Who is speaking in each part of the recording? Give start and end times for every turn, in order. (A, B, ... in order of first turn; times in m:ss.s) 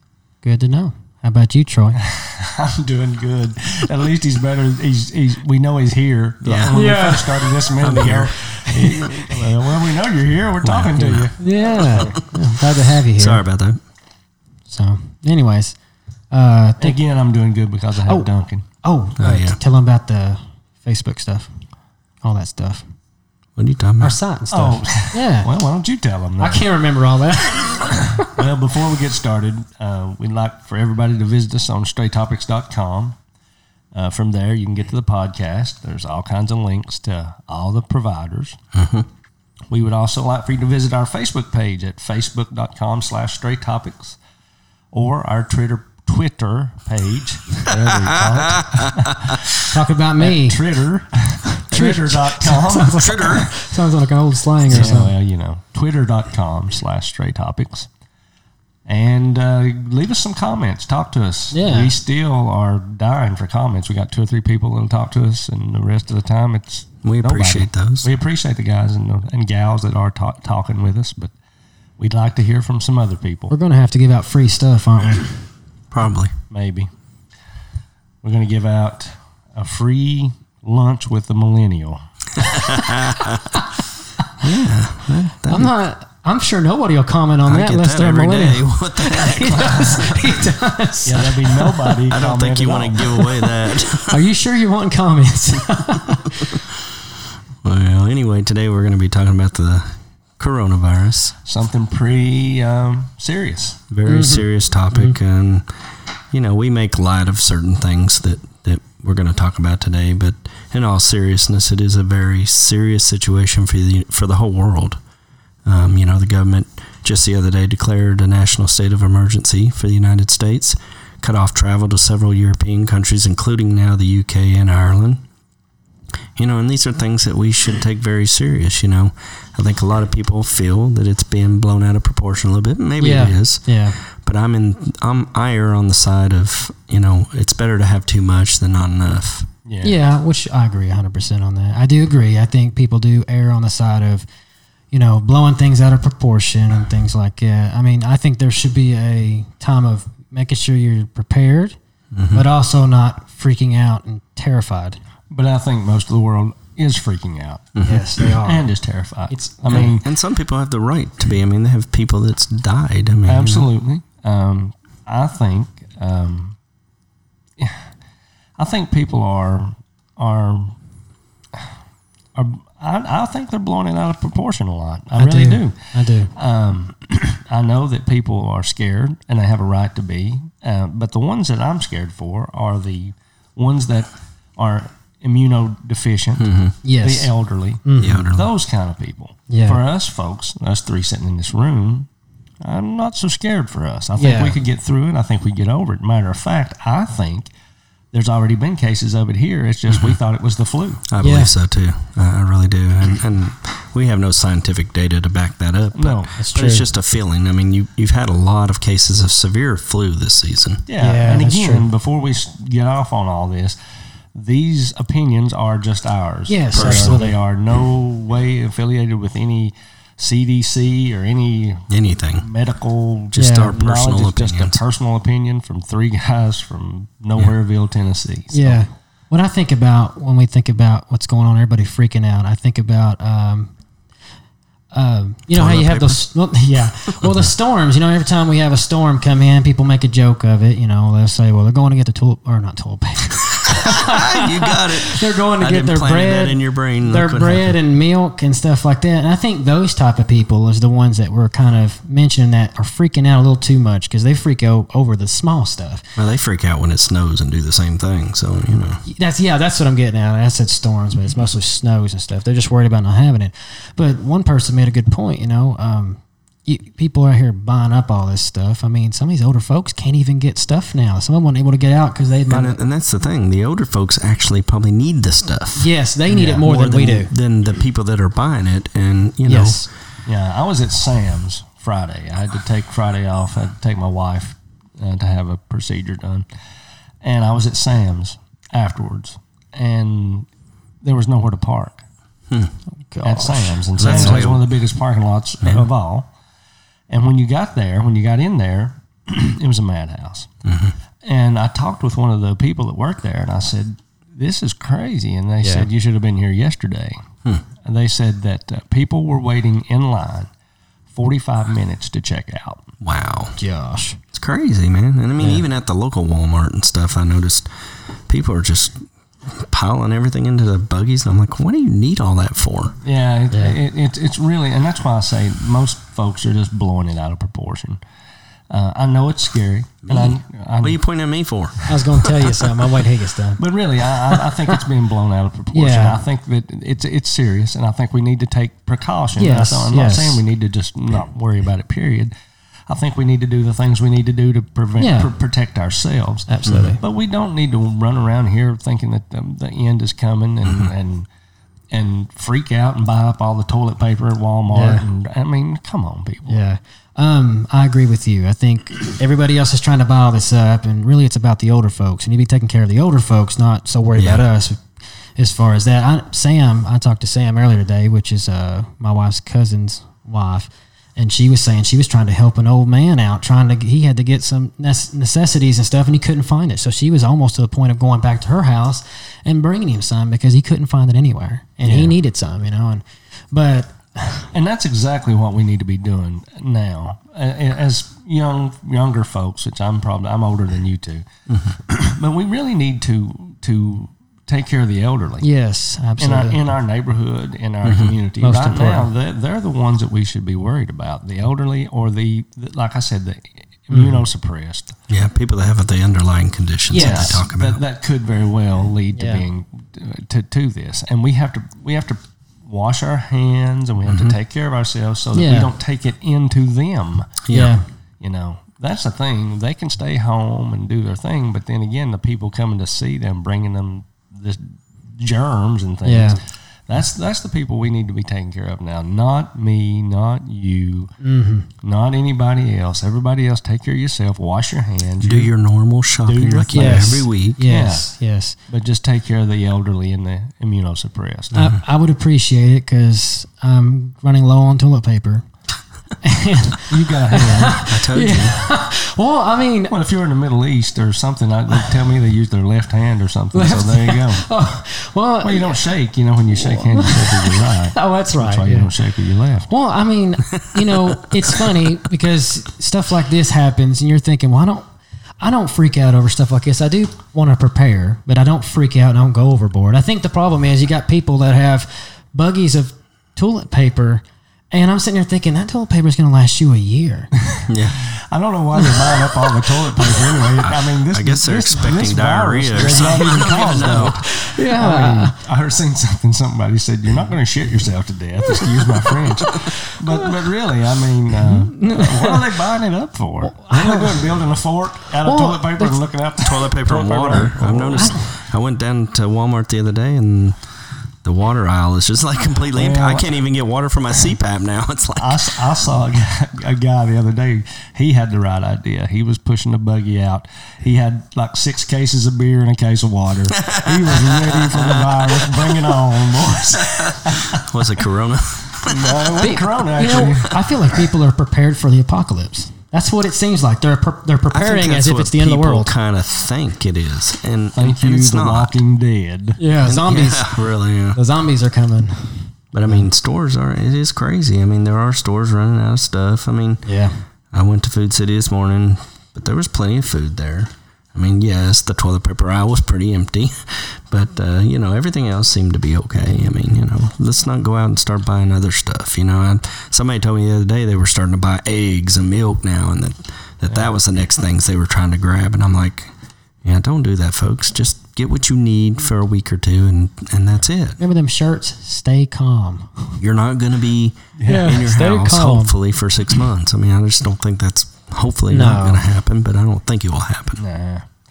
0:00.4-0:02.0 A
0:02.0-0:12.2 B
0:06.4-0:06.8 C
0:06.7-0:07.6 A
0:07.8-0:08.3 C
0:08.6-0:09.5 A
0:10.6-0:11.3 C
0:11.4-0:13.4 A
0:13.2-0:13.8 C
0:14.7-0:15.8 A
0:16.3-0:17.0 A
0:16.8-0:18.6 B
0:18.8-0:21.5 A
0:19.2-0:19.6 C
0:22.2-0:22.8 A
0:23.6-0:24.2 C
0:24.0-0:25.5 A
0:24.5-0:26.7 B
0:26.4-0:28.3 A
0:28.1-0:33.2 B
0:33.9-0:38.6 B
0:38.7-0:39.1 C
0:39.7-0:44.2 B
0:44.9-0:49.3 B
0:47.8-0:49.5 C
0:49.6-0:50.6 A
0:50.2-0:53.5 B
0:51.6-0:55.1 A
0:53.0-0:53.4 C
0:54.7-0:57.9 B
0:58.9-1:11.3 B
1:01.5-1:01.9 A
1:07.0-1:08.1 C
1:12.0-1:13.5 B
1:13.5-1:15.4 A
1:15.9-1:16.3 C
1:16.5-1:16.9 B
1:18.2-1:22.0 B
1:22.4-1:23.5 C
1:22.6-1:22.8 A
1:24.4-1:24.7 A
1:24.4-1:25.7 C
1:25.4-1:31.9 A
1:27.4-1:30.4 C
1:31.0-1:33.2 B
1:32.1-1:34.2 C
1:33.9-1:36.6 A
1:37.6-1:41.3 C
1:41.4-1:43.8 B
1:43.9-1:45.7 C
1:44.1-1:45.2 A
1:46.3-1:55.0 C
1:55.6-2:05.2 C
2:06.4-2:19.5 C
2:13.0-2:14.0 A
2:19.7-2:20.0 B
2:19.8-2:24.2 A
2:24.9-2:31.8 A
2:32.1-2:32.5 C
2:32.3-2:35.0 A
2:35.3-2:37.8 B
2:37.8-2:38.1 C
2:37.8-2:38.7 A
2:38.4-2:40.1 B
2:39.3-2:39.9 A
2:39.7-2:43.7 C
2:43.2-2:46.6 B
2:47.6-2:47.8 B
2:48.6-2:50.8 B
2:52.3-3:06.5 B
2:55.2-2:56.3 A
3:06.4-3:06.8 C
3:06.8-3:07.3 A
3:07.0-3:12.1 B
3:07.8-3:08.3 A
3:08.0-3:08.5 C
3:09.5-3:09.8 A
3:12.6-3:17.5 B
3:14.2-3:14.6 A
3:18.1-3:21.0 B
3:19.9-3:20.2 C
3:21.1-3:30.8 C
3:21.2-3:21.5 A
3:25.9-3:26.3 B
3:26.4-3:26.8 A
3:30.9-3:33.8 B
3:31.0-3:31.9 A
3:34.3-3:48.8 B
3:36.5-3:37.4 A
3:36.7-3:37.2 C
3:41.9-3:42.5 C
3:43.3-3:44.8 C
3:43.3-3:43.8 A
3:48.5-3:53.7 A
3:54.9-4:16.0 A
3:55.5-3:56.2 C
3:57.1-3:57.5 C
4:03.7-4:07.8 C
4:16.2-4:19.0 C
4:19.0-4:32.8 A
4:32.5-4:35.9 C
4:35.8-4:37.3 A
4:36.3-4:36.6 B
4:36.6-4:39.8 C
4:39.5-4:39.9 A
4:40.2-4:46.4 B
4:47.2-4:50.5 B
4:51.0-4:52.0 B
4:53.1-4:54.5 A
4:53.2-4:56.3 B
4:54.0-4:54.6 C
4:57.1-5:00.5 B
5:00.6-5:01.0 C
5:01.2-5:07.2 B
5:05.6-5:05.9 A
5:07.8-5:10.5 B
5:11.1-5:12.8 B
5:13.0-5:13.6 C
5:13.6-5:14.2 A
5:14.3-5:17.6 C
5:18.3-5:19.0 C
5:19.5-5:23.0 C
5:23.0-5:28.0 B
5:23.5-5:23.8 A
5:28.7-5:31.0 B
5:30.1-5:32.5 C
5:31.9-5:33.6 A
5:33.6-5:42.3 B
5:34.3-5:34.8 A
5:35.7-5:36.2 A
5:39.4-5:40.4 A
5:42.9-5:51.3 B
5:45.0-5:45.3 A
5:46.5-5:47.0 A
5:46.6-5:46.9 C
5:50.6-5:50.9 C
5:51.9-5:56.6 B
5:54.7-5:55.0 A
5:56.5-6:04.8 A
6:04.2-6:04.4 C
6:05.4-6:24.5 A
6:21.8-6:22.1 B
6:24.5-6:31.2 B
6:31.5-6:31.8 C
6:31.8-6:35.5 B
6:35.4-6:36.6 A
6:36.2-6:45.0 B
6:37.8-6:38.1 C
6:38.4-6:39.1 A
6:43.9-6:44.2 A
6:45.1-6:47.8 C
6:46.9-6:47.4 A
6:46.9-6:57.5 B
6:49.1-6:49.4 A
6:54.1-6:54.4 C
6:55.3-6:55.7 A
6:57.4-6:57.7 C
6:57.5-6:57.8 A
6:58.2-7:11.1 B
7:06.0-7:06.4 A
7:11.2-7:11.7 A
7:11.8-7:15.5 B
7:15.2-7:17.6 C
7:16.2-7:18.1 B
7:16.7-7:18.6 A
7:18.7-7:21.6 B
7:21.5-7:25.4 A
7:26.2-7:29.9 A
7:26.9-7:27.8 B
7:27.8-7:28.6 C
7:29.9-7:34.5 B
7:33.5-7:35.8 A
7:35.4-7:39.7 B
7:36.6-7:38.9 A
7:39.7-7:44.8 A
7:40.6-7:41.5 C
7:45.4-7:57.3 A
7:57.5-8:18.2 B
7:57.7-7:58.0 C
7:58.8-8:00.2 A
8:00.6-8:04.2 C
8:03.8-8:05.4 A
8:08.5-8:09.9 A
8:11.4-8:12.4 A
8:13.4-8:14.3 A
8:15.2-8:16.0 A
8:16.4-8:20.6 C
8:18.0-8:18.2 A
8:21.2-8:25.5 C
8:22.7-8:23.3 B
8:25.2-8:37.7 B
8:33.5-8:36.0 C
8:36.7-8:39.3 C
8:38.8-8:40.6 B
8:39.4-8:45.9 A
8:44.5-8:48.8 C
8:47.8-8:49.6 B
8:49.6-8:50.5 A
8:49.8-8:51.2 C
8:51.1-8:53.0 A
8:52.7-8:56.8 C
8:56.8-8:57.1 A
8:57.5-9:16.1 C
9:16.6-9:21.0 C
9:21.0-9:23.2 A
9:23.2-9:30.6 C
9:24.4-9:24.8 B
9:24.4-9:25.7 A
9:28.5-9:29.1 A
9:30.6-9:31.0 B